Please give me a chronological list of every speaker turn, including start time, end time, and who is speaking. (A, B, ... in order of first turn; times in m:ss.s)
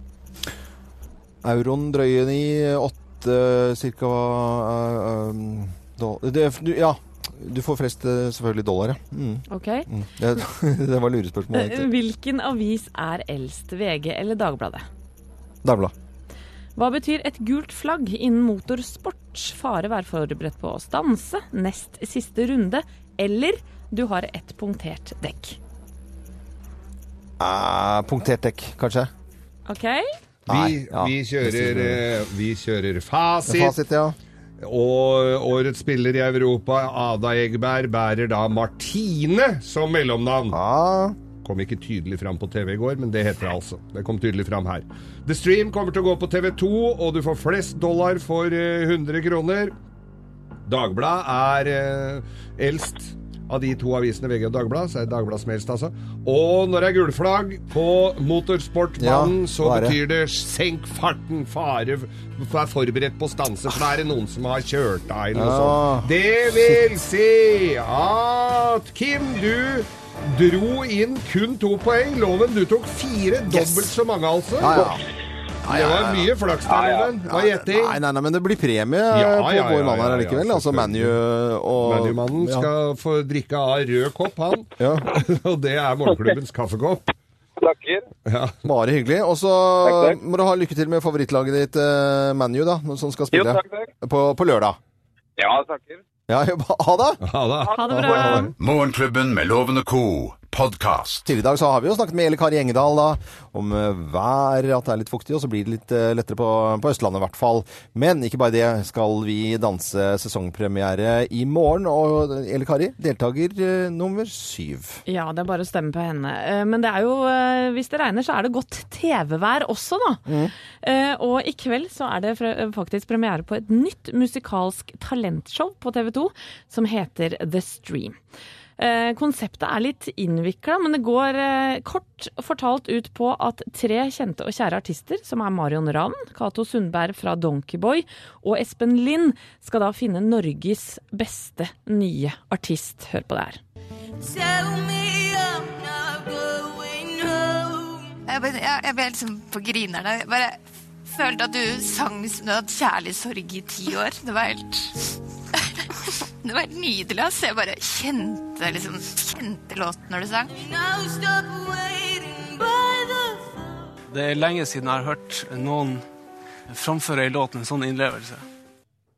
0:01.4-0:11.9 A
0:09.5-0:09.9 B
0:11.5-0:14.8 B
0:15.6-0:15.9 A
0:16.8-0:25.6 B
0:27.4-0:29.1 A
0:29.7-0:30.0 B
0:30.5-0:32.0 A
0:30.5-0:33.7 C
0:33.4-0:34.2 A
0:34.6-0:40.6 C
0:40.5-0:41.2 A
0:41.4-0:49.7 C
0:50.7-1:14.9 C
0:59.0-1:00.0 A
1:05.3-1:06.1 A
1:13.5-1:14.0 A
1:14.6-1:15.0 A
1:15.6-1:16.3 A
1:15.7-1:18.0 C
1:16.7-1:17.1 D
1:17.2-1:22.7 A
1:19.1-1:21.1 C
1:21.8-1:27.1 C
1:24.8-1:25.1 A
1:27.6-1:28.0 D
1:28.2-1:28.6 C
1:28.6-1:34.8 A
1:29.8-1:30.2 D
1:33.3-1:33.9 D
1:35.4-1:36.0 D
1:36.3-1:37.2 A
1:37.2-1:38.5 C
1:37.7-1:38.5 B
1:37.9-1:38.5 A
1:38.6-1:41.2 E
1:41.2-1:55.0 A
1:55.1-2:00.2 B
2:00.3-2:00.5 A
2:00.8-2:08.2 B
2:08.8-2:23.6 B
2:28.2-2:40.8 F
2:44.1-2:46.0 G
2:46.7-2:48.4 G